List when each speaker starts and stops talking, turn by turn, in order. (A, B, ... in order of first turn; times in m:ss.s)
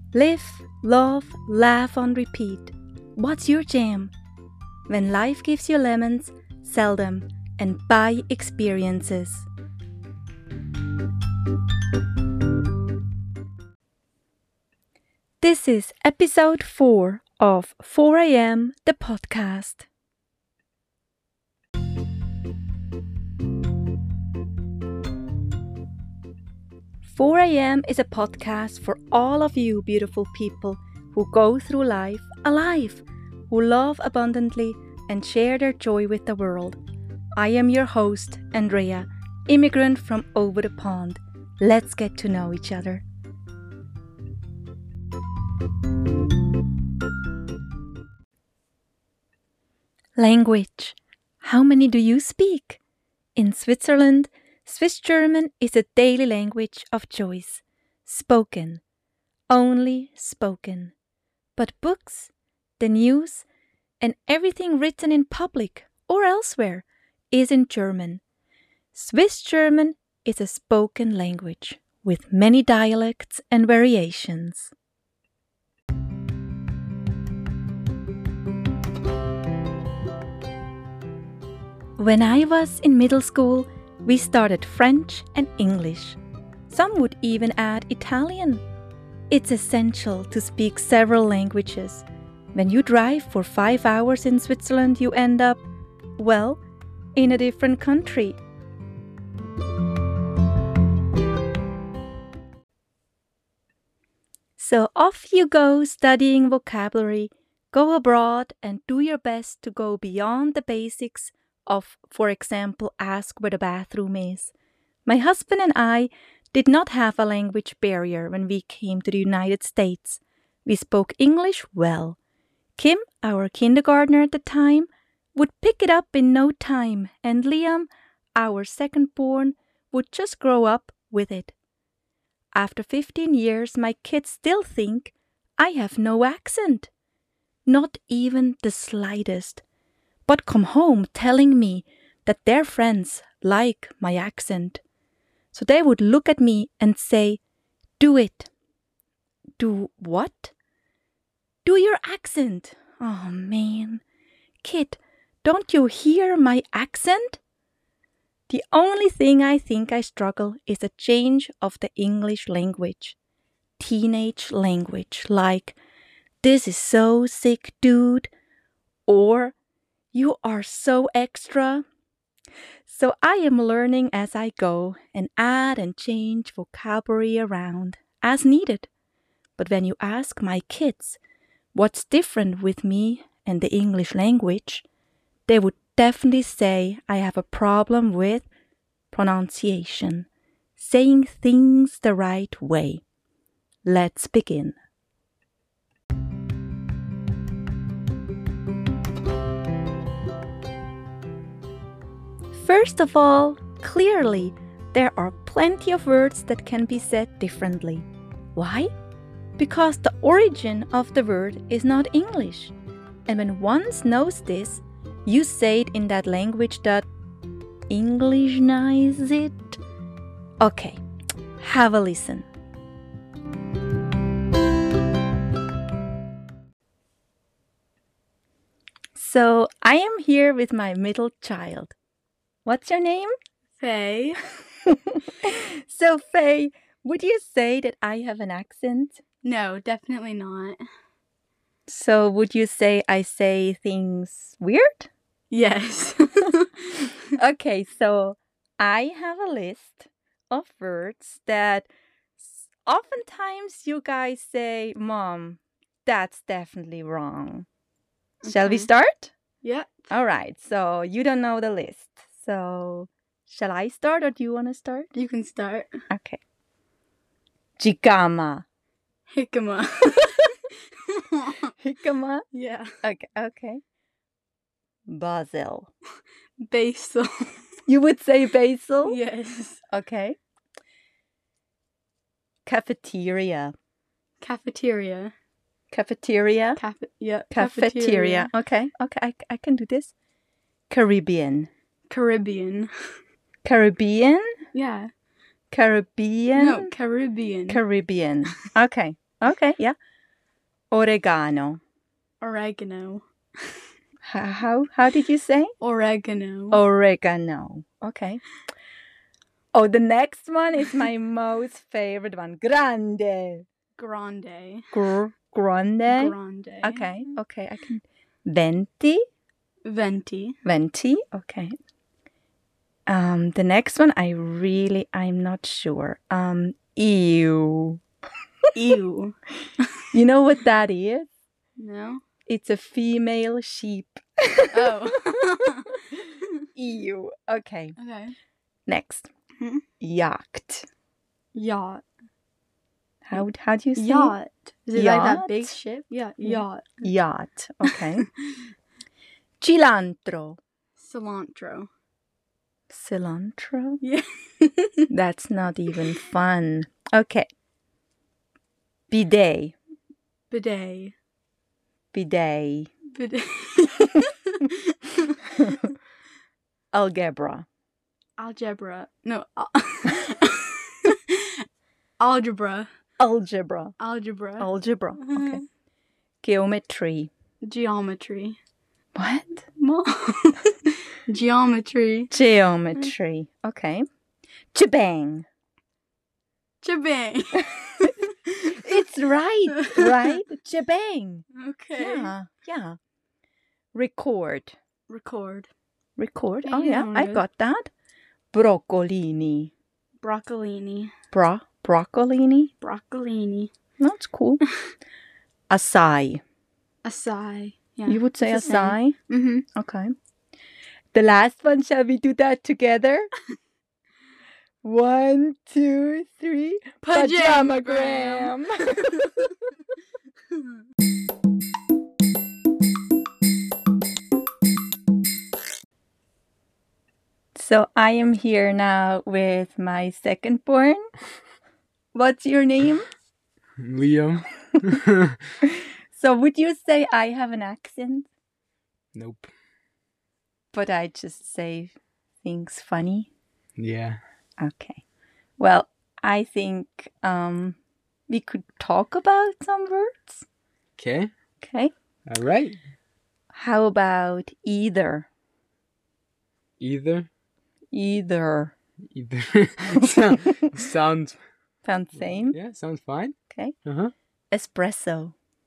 0:00.1-0:04.1 A
0:04.9-0:09.5 A
0:15.4-0:19.9 A
0:27.0-0:36.8 A
0:37.4-0:43.0 A
0:50.2-0:52.8 A
0:53.4-0:58.8 A
0:59.5-1:01.0 A
1:01.6-1:03.5 A
1:04.0-1:08.2 A
1:08.9-1:14.7 A
1:22.0-1:26.2 A
1:26.7-1:28.6 A
1:29.3-1:35.6 A
1:36.2-1:36.6 A
1:37.2-1:38.4 A
1:44.6-1:54.5 A
1:55.1-2:02.2 A
2:02.8-2:11.5 A
2:12.5-2:16.9 A
2:17.7-2:19.6 A
2:20.3-2:24.8 A
2:25.5-2:27.4 A
2:28.0-2:28.5 A
2:29.6-2:30.5 A
2:31.6-2:34.0 A
2:34.6-2:37.4 A
2:38.5-2:43.2 A
2:43.8-2:45.8 A
2:46.4-2:48.3 A
2:49.1-2:49.6 A
2:50.1-2:51.8 A
2:52.9-2:58.9 A
2:59.6-3:01.2 A
3:01.7-3:04.9 A
3:05.5-3:08.5 A
3:09.1-3:13.0 A
3:13.8-3:14.8 A
3:22.5-3:28.9 A
3:29.6-3:32.7 A
3:33.3-3:37.1 A
3:37.9-3:39.8 A
3:40.6-3:41.0 A
3:41.6-3:42.5 A
3:49.2-3:52.0 A
3:52.6-3:53.3 A
3:53.8-3:54.4 B
3:54.8-3:59.2 A
3:59.4-4:00.8 B
4:01.9-4:05.1 A
4:05.5-4:07.1 B
4:07.4-4:11.9 A
4:12.4-4:17.7 A
4:18.4-4:18.9 B
4:18.5-4:19.3 A
4:19.6-4:20.1 B
4:20.1-4:25.1 A
4:25.1-4:25.9 B
4:26.1-4:26.4 A
4:27.8-4:28.6 A
4:29.3-4:30.6 B
4:31.1-4:31.7 B
4:31.8-4:32.4 A
4:32.5-4:32.9 B
4:33.0-4:33.8 A
4:35.1-4:35.9 A
4:36.6-4:37.5 B
4:37.9-4:39.2 A
4:39.0-4:39.8 B
4:39.9-4:40.4 A
4:42.7-4:43.7 A
4:44.4-4:45.3 B
4:45.9-4:46.8 A
4:46.8-4:48.5 B
4:47.5-4:50.1 A
4:50.9-4:51.7 A
4:52.1-4:52.9 B
4:53.6-4:54.5 A
4:54.7-4:55.1 B
4:55.7-4:56.9 A
4:56.6-4:57.8 B
4:57.7-5:00.0 A
5:00.9-5:01.8 A
5:02.4-5:03.7 B
5:04.2-5:05.7 A
5:05.8-5:06.8 B
5:06.7-5:08.4 A
5:09.7-5:13.6 A
5:14.0-5:14.9 B
5:14.9-5:19.2 A
5:16.1-5:17.1 B
5:19.8-5:20.6 B
5:20.6-5:21.8 A
5:23.1-5:28.0 A
5:28.8-5:29.4 B
5:30.1-5:31.3 A
5:31.8-5:32.2 B
5:32.5-5:35.0 A
5:34.7-5:35.9 B
5:36.8-5:38.0 A
5:38.0-5:38.4 B
5:38.9-5:39.3 A
5:40.0-5:40.9 A
5:41.6-5:42.0 B
5:43.2-5:44.3 A
5:44.0-5:47.0 B
5:45.0-5:45.8 A
5:46.4-5:48.3 A
5:47.9-5:48.3 B
5:49.6-5:50.6 A
5:51.0-5:51.9 B
5:52.9-5:54.0 A
5:54.0-5:55.0 B
5:55.1-5:57.5 A
5:59.1-5:59.8 A
6:00.5-6:01.1 B
6:02.1-6:02.9 A
6:03.2-6:05.4 B
6:06.9-6:07.7 A
6:08.4-6:11.6 B
6:12.2-6:12.9 B
6:13.2-6:14.0 A
6:14.0-6:14.7 B
6:14.6-6:15.6 A
6:15.2-6:15.6 B
6:16.4-6:17.3 A
6:17.6-6:18.6 B
6:19.2-6:19.6 A
6:19.8-6:22.3 B
6:22.3-6:24.0 A
6:24.7-6:25.5 A
6:26.8-6:28.9 B
6:28.7-6:31.4 A
6:29.9-6:30.3 B
6:31.6-6:32.3 B
6:32.0-6:33.0 A
6:33.9-6:34.8 A
6:35.1-6:35.7 B
6:36.2-6:37.9 A
6:36.6-6:37.4 B
6:38.5-6:39.7 A
6:40.2-6:41.1 B
6:41.3-6:42.7 A
6:42.8-6:43.7 B
6:44.0-6:44.6 A
6:45.7-6:46.4 A
6:47.0-6:49.6 B
6:48.1-6:49.2 A
6:49.8-6:50.1 A
6:51.1-6:53.3 A
6:54.8-6:59.3 A
6:57.0-6:58.6 B
6:59.2-6:59.5 B
7:07.6-7:11.0 A
7:12.1-7:13.0 A
7:13.8-7:15.4 C
7:15.6-7:18.3 A
7:19.2-7:19.5 C
7:20.7-7:23.3 A
7:23.8-7:24.2 C
7:24.6-7:25.0 A
7:25.6-7:27.8 A
7:28.3-7:30.5 A
7:31.0-7:31.3 C
7:31.6-7:31.9 A
7:32.3-7:32.8 C
7:33.5-7:35.3 A
7:36.8-7:37.3 C
7:37.9-7:38.7 A
7:39.1-7:41.4 C
7:41.8-7:42.6 A
7:42.5-7:44.1 C
7:43.5-7:43.8 A
7:44.5-7:45.4 A